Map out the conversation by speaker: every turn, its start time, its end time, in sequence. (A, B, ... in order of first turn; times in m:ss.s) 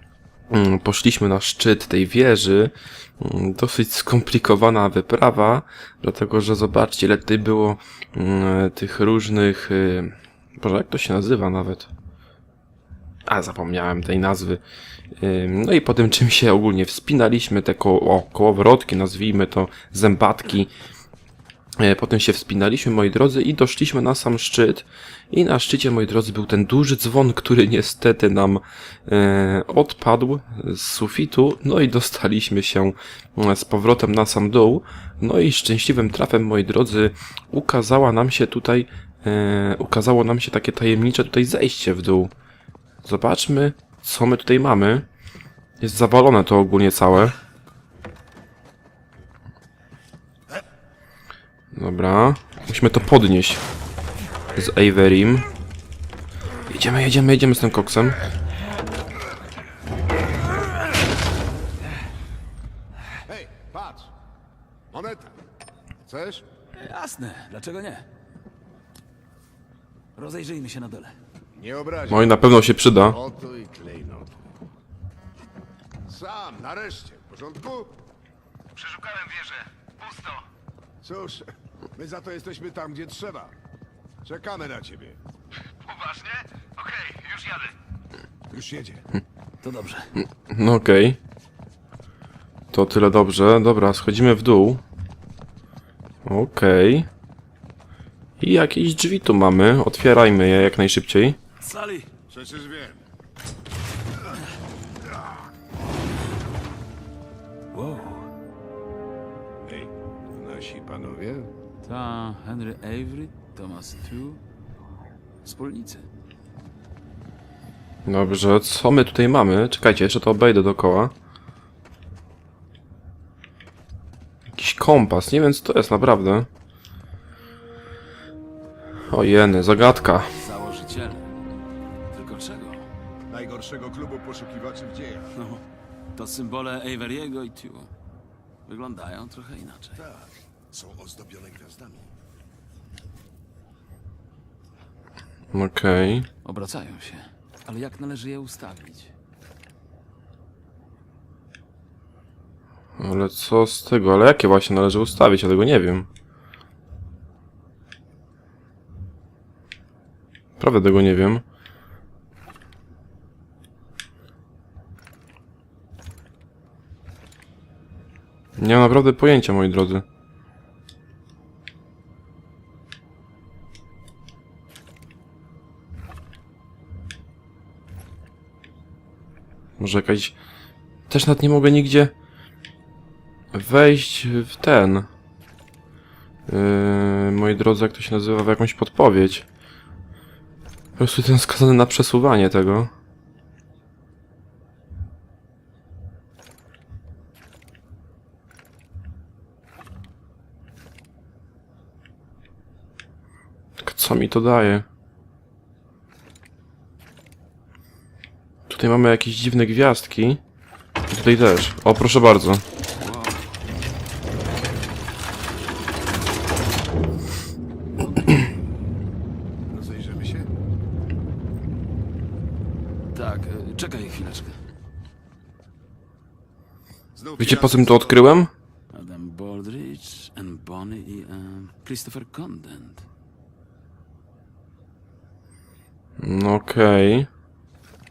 0:00.5-0:11.9 A
0:13.3-0:14.6 A
0:15.2-0:20.7 A
0:21.8-0:42.3 A
0:43.0-0:45.0 A
0:45.8-0:47.4 A
0:51.7-0:53.6 A
0:54.5-0:55.5 A
0:56.7-0:58.2 A
1:03.3-1:04.1 B
1:04.9-1:05.4 B
1:06.1-1:06.4 B
1:06.8-1:08.1 C
1:10.2-1:11.2 C
1:11.6-1:12.4 B
1:12.1-1:13.2 A
1:12.9-1:14.4 B
1:16.1-1:18.0 B
1:18.8-1:20.4 D
1:21.0-1:23.5 B
1:24.2-1:25.2 B
1:25.9-1:26.9 D
1:26.9-1:27.7 B
1:28.5-1:29.1 B
1:29.6-1:30.1 C
1:30.5-1:31.2 A
1:32.7-1:34.8 A
1:36.2-1:37.1 A
1:38.4-1:41.4 A
1:41.6-1:42.1 C
1:42.3-1:43.0 B
1:47.7-1:48.3 C
1:49.6-1:51.5 B
1:51.8-1:54.4 C
1:55.4-1:56.1 C
1:58.0-2:01.1 A
2:04.5-2:06.5 A
2:09.1-2:10.3 A
2:10.4-2:11.3 C
2:12.1-2:12.9 C
2:13.3-2:15.3 B
2:15.3-2:15.6 C
2:16.2-2:17.9 C
2:18.7-2:20.0 C
2:20.0-2:22.1 B
2:25.5-2:26.3 A
2:26.4-2:29.1 C
2:33.0-2:36.1 A
2:40.6-2:41.4 A
2:48.6-2:50.0 A
2:59.8-3:00.3 A
3:01.1-3:02.1 A
3:03.5-3:05.1 A
3:06.5-3:09.5 A
3:11.0-3:12.9 A
3:23.8-3:24.9 A
3:28.7-3:30.4 A
3:31.1-3:32.6 A
3:33.0-3:33.5 C
3:38.0-3:38.3 C
3:39.7-3:40.5 B
3:43.1-3:44.6 C
3:47.1-3:48.2 B
3:47.4-3:48.5 A
3:48.9-3:53.1 C
3:56.2-3:57.3 A